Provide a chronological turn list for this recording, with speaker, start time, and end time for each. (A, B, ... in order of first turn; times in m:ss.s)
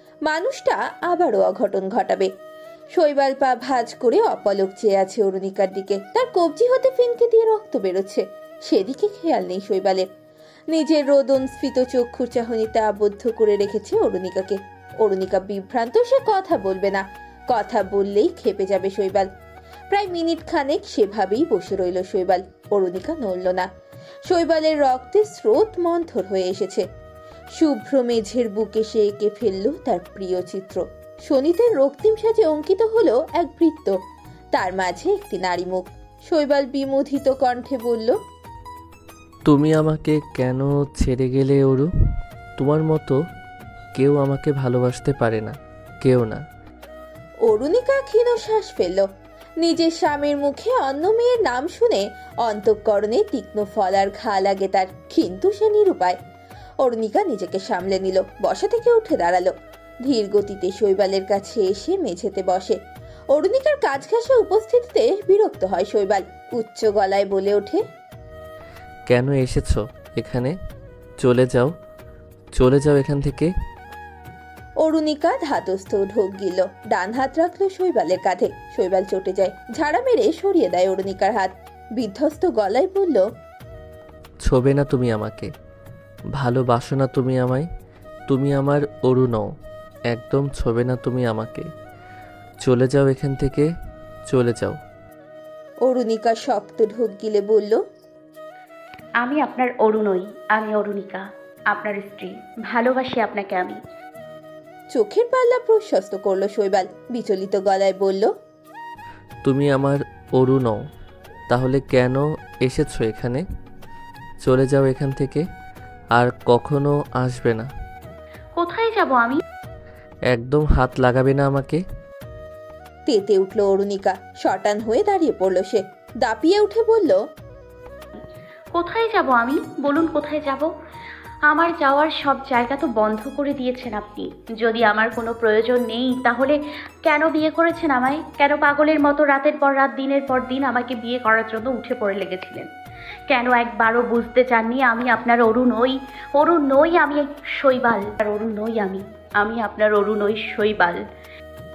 0:00.3-0:02.3 A
0:03.0-0:10.1 A
0:10.7-0:19.3 A
0:19.9-0:23.7 A
0:24.3-0:26.8 A
0:27.6-0:33.9 A
0:34.6-0:38.2 A
0:39.5-0:41.9 B
0:42.6-0:43.2 B
0:44.0-0:46.4 B
0:47.5-0:49.1 A
0:49.6-0:56.2 A
0:56.8-0:59.5 A
1:00.1-1:02.8 A
1:03.3-1:07.8 A
1:09.1-1:10.5 B
1:11.2-1:11.7 B
1:12.6-1:13.5 B
1:14.8-1:23.2 A
1:24.4-1:25.5 B
1:26.4-1:27.7 B
1:28.3-1:29.5 B
1:30.1-1:31.7 B
1:32.6-1:33.7 B
1:34.3-1:34.8 B
1:35.8-1:37.8 A
1:39.2-1:43.8 C
1:44.9-1:48.3 A
1:49.4-1:50.8 B
1:51.5-1:53.4 B
1:54.4-1:55.4 B
1:56.1-1:57.7 B
1:58.6-1:59.4 C
2:00.3-2:01.8 B
2:03.1-2:07.2 A
2:08.7-2:10.7 C
2:11.5-2:22.7 C
2:23.3-2:31.0 C